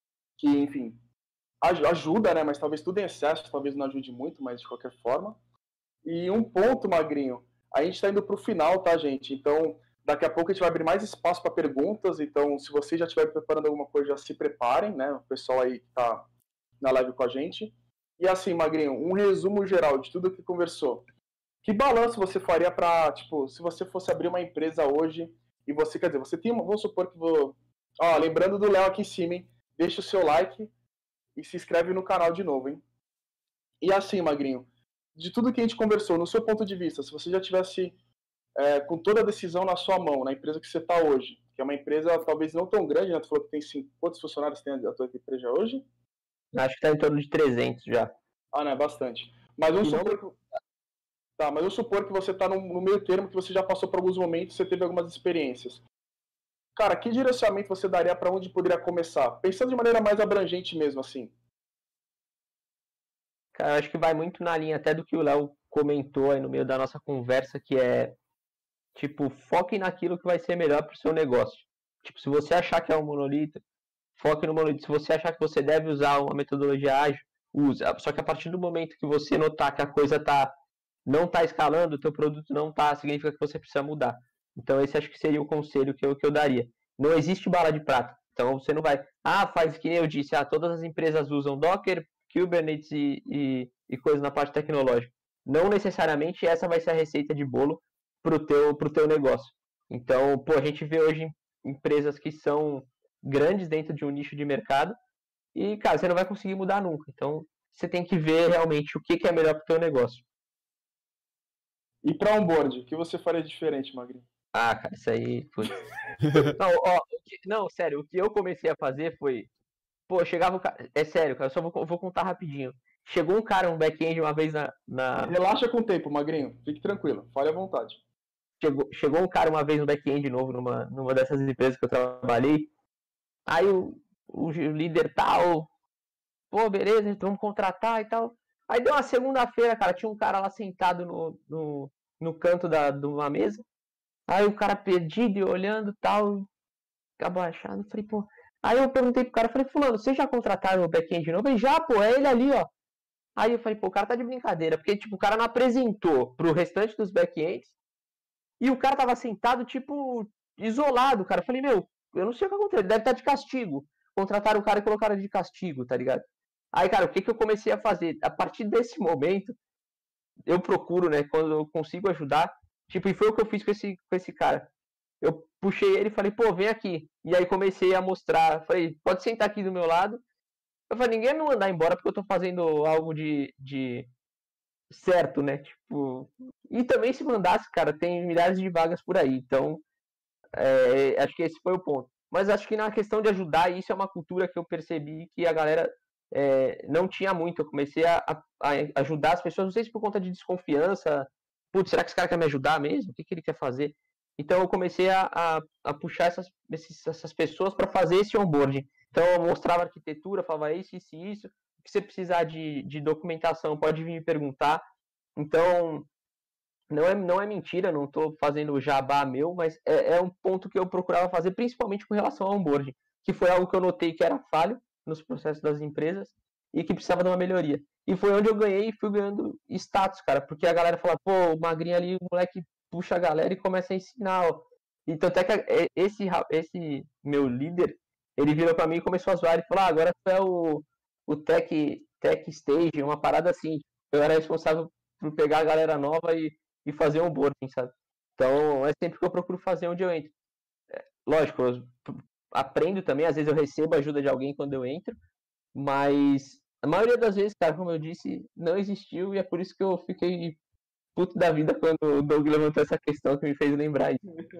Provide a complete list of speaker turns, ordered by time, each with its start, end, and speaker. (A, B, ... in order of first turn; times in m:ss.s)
0:00.4-0:01.0 A
0:01.6-0:05.4 A
0:06.0-0:16.2 A
0:16.8-0:21.1 A
0:21.6-0:30.7 A
0:31.4-0:32.8 A
0:33.8-0:38.0 A
0:38.6-0:45.8 A
0:46.5-0:48.1 B
0:48.5-0:50.4 A
0:49.8-0:50.2 B
0:51.4-0:55.8 A
0:56.8-1:01.3 A
1:03.5-1:08.2 B
1:09.0-1:13.6 B
1:14.2-1:20.5 B
1:21.1-1:45.0 B
1:45.6-1:50.2 B
1:52.0-1:54.2 A
1:54.5-1:55.8 B
1:56.6-1:59.5 B
2:00.1-2:05.4 B
2:05.2-2:08.0 A
2:08.6-2:12.7 B
2:13.5-2:15.7 B
2:16.5-2:23.6 B
2:24.3-2:26.5 B
2:27.2-2:32.7 B
2:33.4-2:37.7 B
2:38.6-2:49.6 B
2:50.5-2:54.7 B
2:55.2-3:00.2 B
3:00.9-3:04.1 B
3:04.9-3:09.8 B
3:10.6-3:34.8 B
3:35.4-3:36.1 B
3:36.9-4:10.3 B
4:10.9-4:15.2 B
4:15.7-4:20.6 B
4:21.1-4:24.2 B